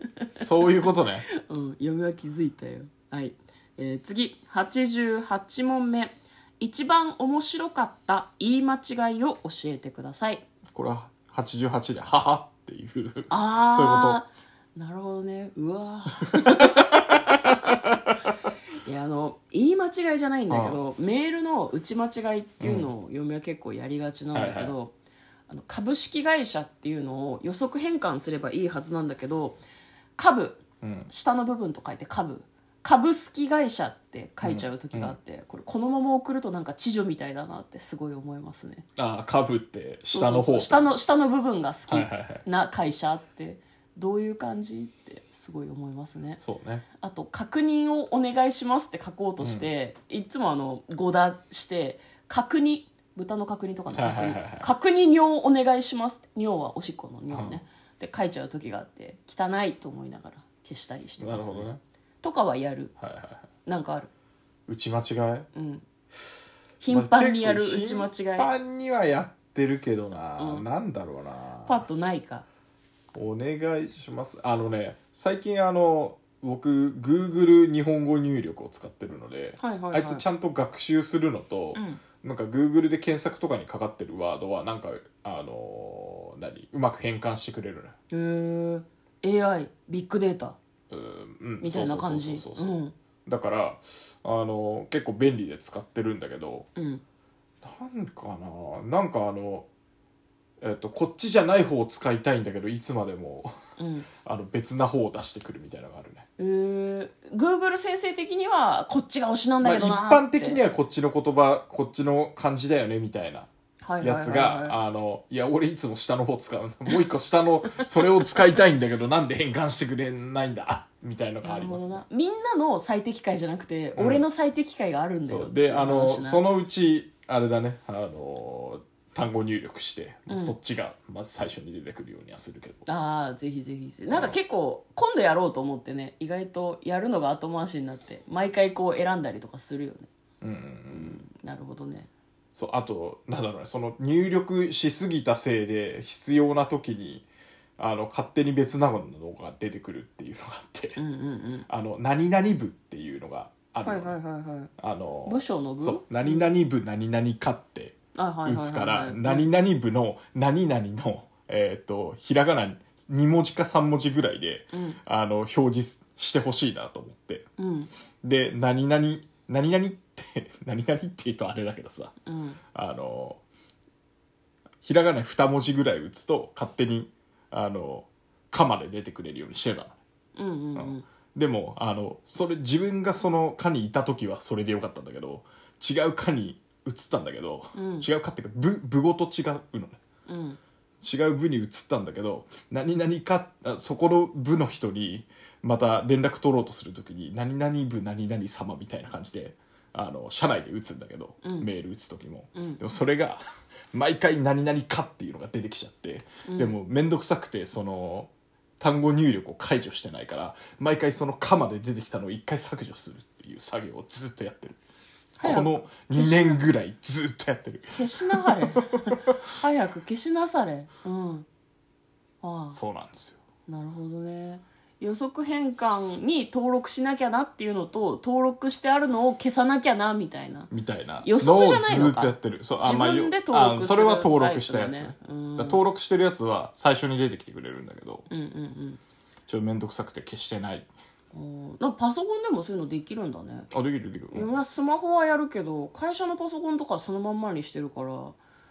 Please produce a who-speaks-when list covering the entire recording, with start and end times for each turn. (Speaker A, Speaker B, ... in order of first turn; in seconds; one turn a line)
Speaker A: 0.4-1.3
Speaker B: 0.8-10.4
Speaker A: 10.7-14.2
Speaker B: 13.3-17.1
Speaker A: 16.3-17.8
Speaker B: 18.9-24.9
Speaker A: 20.5-20.8
Speaker A: 22.6-22.9
Speaker A: 24.3-24.8
Speaker B: 25.5-29.6
Speaker B: 30.2-38.9
Speaker A: 30.8-31.1
Speaker A: 34.4-35.2
Speaker A: 39.0-40.9
Speaker B: 40.1-46.4
Speaker A: 41.9-42.4
Speaker A: 46.4-46.9
Speaker B: 47.0-61.7
Speaker A: 49.4-49.7
Speaker A: 53.9-54.7
Speaker A: 57.3-57.6
Speaker A: 61.2-61.8
Speaker B: 62.2-62.9
Speaker A: 63.0-63.5
Speaker B: 63.7-64.1
Speaker A: 64.7-65.5
Speaker B: 65.5-65.9
Speaker B: 66.8-68.5
Speaker A: 66.9-71.8
Speaker B: 70.4-70.7
Speaker B: 71.7-72.5
Speaker A: 73.1-87.9
Speaker B: 79.6-80.2
Speaker B: 81.8-82.0
Speaker B: 88.1-90.6
Speaker A: 90.9-92.8
Speaker B: 91.6-93.0
Speaker A: 93.3-96.7
Speaker B: 96.8-97.0
Speaker A: 97.6-99.7
Speaker A: 100.6-103.5
Speaker B: 103.8-104.1
Speaker A: 104.2-106.3
Speaker B: 106.4-110.6
Speaker A: 109.6-113.5
Speaker B: 113.8-114.8
Speaker A: 114.0-122.0
Speaker B: 121.4-126.4
Speaker A: 124.0-124.2
Speaker A: 125.2-132.9
Speaker B: 130.3-130.6
Speaker B: 132.9-140.1
Speaker A: 134.1-134.4
Speaker A: 140.4-141.2
Speaker B: 140.9-142.1
Speaker A: 142.6-151.0
Speaker B: 151.0-151.7
Speaker A: 151.7-154.2
Speaker B: 153.8-154.7
Speaker A: 154.8-167.5
Speaker B: 155.3-156.5
Speaker B: 158.2-159.5
Speaker B: 164.7-165.0
Speaker B: 167.6-167.9
Speaker A: 168.2-172.1
Speaker B: 172.3-172.6
Speaker A: 172.7-173.4
Speaker A: 174.8-180.0
Speaker B: 180.4-181.1
Speaker A: 180.8-190.0
Speaker B: 187.8-188.1
Speaker B: 190.3-190.6
Speaker A: 191.0-203.4
Speaker B: 201.4-201.7
Speaker A: 203.9-214.8
Speaker B: 206.4-206.7
Speaker B: 215.4-216.7
Speaker A: 215.4-219.2
Speaker B: 217.9-221.5
Speaker B: 222.4-222.8
Speaker A: 222.7-223.4
Speaker B: 223.7-230.7
Speaker A: 230.7-238.3
Speaker B: 231.2-235.8
Speaker B: 238.3-239.0
Speaker A: 239.5-240.9
Speaker B: 241.3-243.7
Speaker A: 243.7-244.5
Speaker B: 244.3-248.4